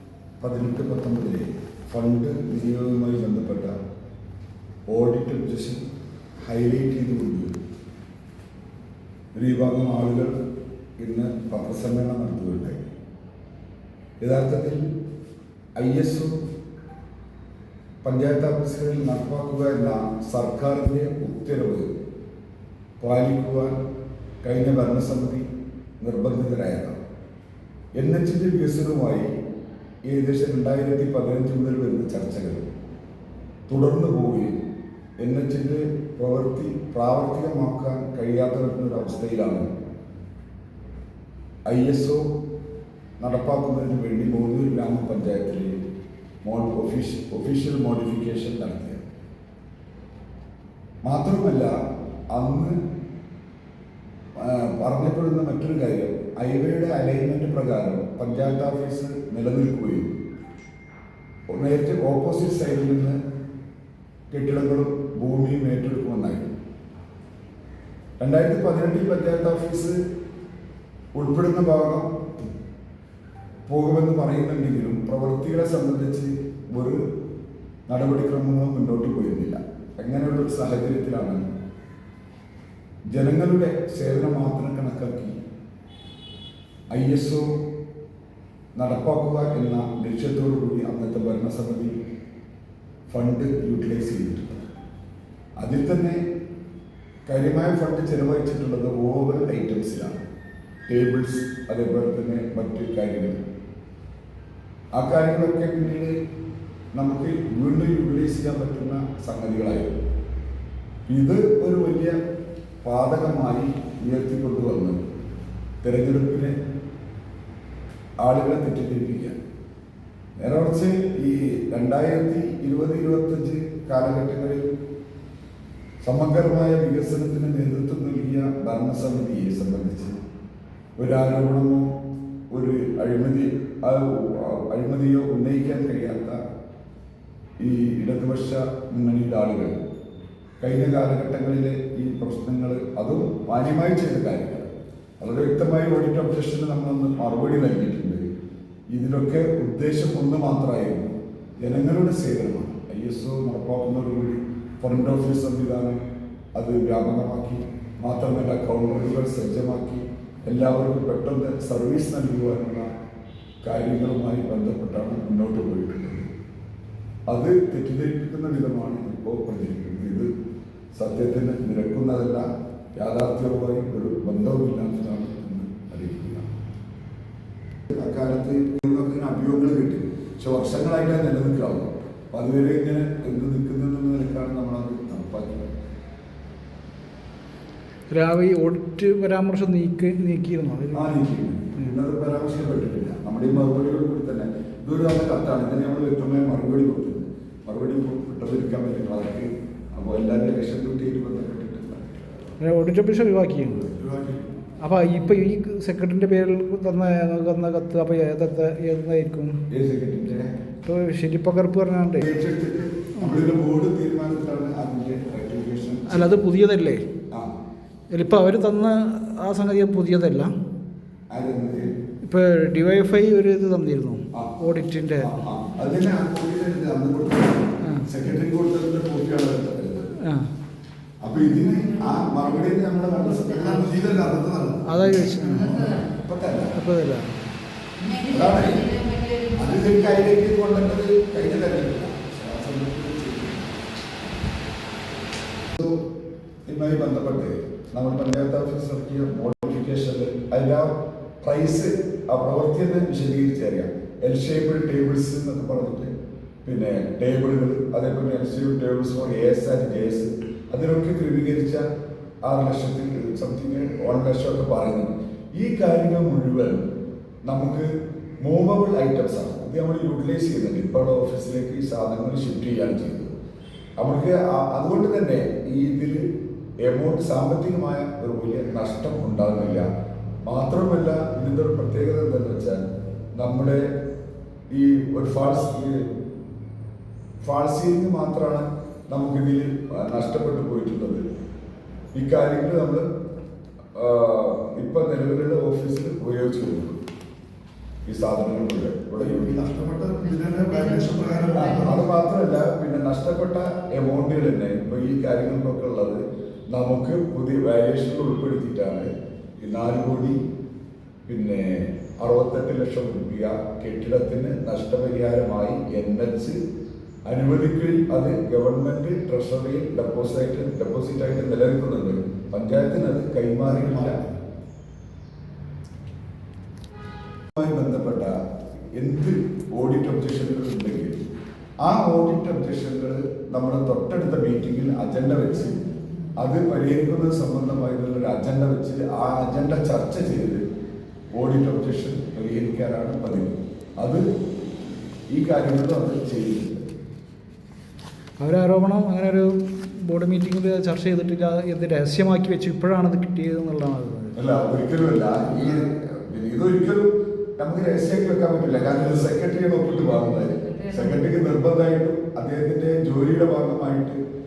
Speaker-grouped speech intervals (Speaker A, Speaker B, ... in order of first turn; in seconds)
Speaker A: 0.4-3.7, 4.9-5.8, 6.4-7.5, 9.3-10.3, 11.0-12.8, 14.2-14.9, 15.8-16.4, 18.0-21.9, 23.0-23.8, 24.4-25.5, 26.0-27.0, 28.0-29.3, 30.1-32.7, 33.7-34.6, 35.2-39.7, 41.6-42.3, 43.2-45.8, 46.4-49.0, 51.0-51.7, 52.3-52.8, 54.4-60.1, 61.5-63.2, 64.3-66.5, 68.2-70.0, 71.1-72.2, 73.7-77.0, 77.9-81.4, 83.1-85.4, 86.9-87.5, 88.8-91.9, 93.1-94.6, 95.6-96.2, 97.3-100.2, 100.9-103.4, 105.0-106.2, 106.9-110.0, 111.1-112.2, 112.8-115.0, 115.8-116.5, 118.2-119.4, 120.4-124.7, 126.0-130.2, 131.0-131.9, 132.5-136.4, 137.6-139.8, 140.6-148.3, 148.9-156.0, 156.5-162.9, 163.6-166.3, 167.3-170.3, 170.9-176.5, 177.9-185.6, 190.9-202.4, 203.8-204.5, 209.7-210.5, 212.2-216.4, 221.3-221.9, 225.2-230.1, 231.2-236.8, 238.3-243.8, 245.7-246.0, 246.7-256.1, 256.6-261.9, 262.4-266.9, 267.4-267.9, 268.4-273.3, 274.0-276.2, 276.8-279.9, 280.4-283.9, 284.7-286.1, 287.4-291.2, 292.1-293.0, 293.9-297.0, 298.1-299.7, 301.5-309.1, 309.6-310.4, 311.3-316.6, 317.2-324.2, 327.5-328.4, 329.0-331.2, 331.8-340.6, 341.3-344.2, 345.3-346.9, 354.4-364.2
Speaker B: 188.1-191.2, 202.6-203.9, 204.8-209.6, 210.8-212.3, 216.1-217.1, 218.1-220.5, 222.2-225.3, 230.2-230.5, 234.8-236.0, 236.7-237.3, 348.4-354.3
Speaker C: 238.0-239.9, 299.7-302.0